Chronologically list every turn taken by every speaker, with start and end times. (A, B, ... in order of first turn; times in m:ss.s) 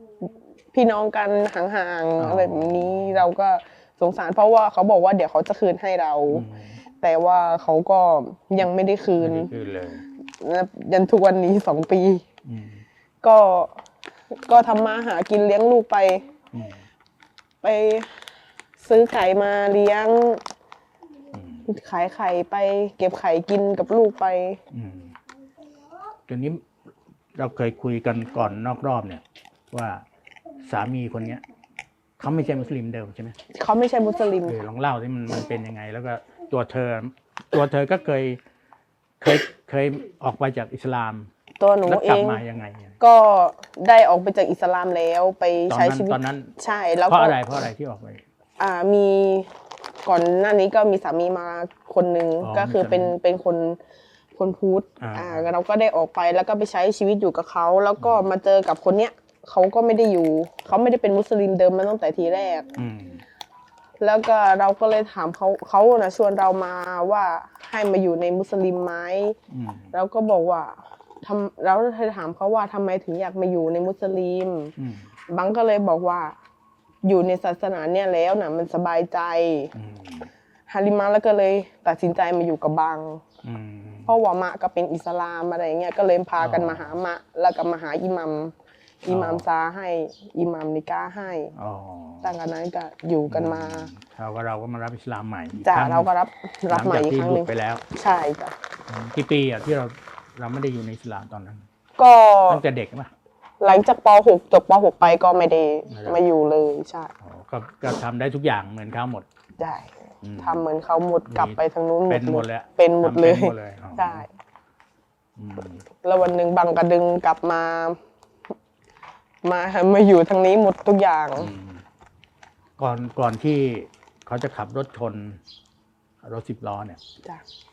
0:00.7-0:06.4 A
0:02.2-0:03.3 B
0:06.3-0:06.8 B
0:07.0-0:09.5 A
0:09.2-0:10.0 B
0:10.4-0:12.2 A
0:12.4-0:12.8 B
0:13.2-0:13.8 A
0:14.3-0:16.2 A
0:16.5-0:16.8 B
0:17.6-0:18.1 A
0:18.8-0:20.4 A
0:21.3-0:21.7 B
0:21.7-0:24.6 A
0:24.7-0:25.2 B
0:26.3-0:26.6 B
0:27.4-0:30.0 B
0:30.6-0:31.4 B
0:32.2-0:33.4 B
0:33.5-0:34.6 A
0:34.4-0:38.4 B
0:39.2-0:41.3 B
0:41.6-0:42.4 A
0:41.8-0:43.0 B
0:43.0-0:47.4 A
0:45.7-0:46.5 B
0:47.1-0:48.2 B
0:48.6-0:49.5 A
0:50.0-0:53.8 A
0:52.4-0:53.2 B
0:54.4-1:02.7 A
0:55.0-0:55.5 B
0:58.0-0:58.3 B
1:02.8-1:03.2 B
1:04.0-1:09.4 A
1:09.5-1:09.9 B
1:09.9-1:14.7 A
1:14.8-1:15.1 B
1:15.3-1:16.4 A
1:17.0-1:19.7 A
1:19.7-1:20.3 B
1:20.7-1:23.2 A
1:23.4-1:24.1 B
1:24.1-1:28.5 A
1:26.4-1:27.0 B
1:29.0-1:31.5 A
1:29.1-1:29.4 B
1:31.6-1:32.4 B
1:32.2-1:33.9 A
1:33.3-1:36.1 B
1:35.6-1:38.6 A
1:36.7-1:37.8 B
1:38.9-1:41.6 B
1:42.0-1:42.6 A
1:42.5-1:43.1 B
1:43.6-1:47.1 A
1:45.9-1:46.2 B
1:47.2-1:49.3 B
1:49.6-1:54.3 A
1:50.2-1:50.6 B
1:51.3-1:54.2 B
1:55.4-1:55.8 B
1:56.0-1:58.0 A
1:59.4-2:01.5 A
2:01.4-2:01.8 B
2:02.8-2:05.4 B
2:06.2-2:07.0 B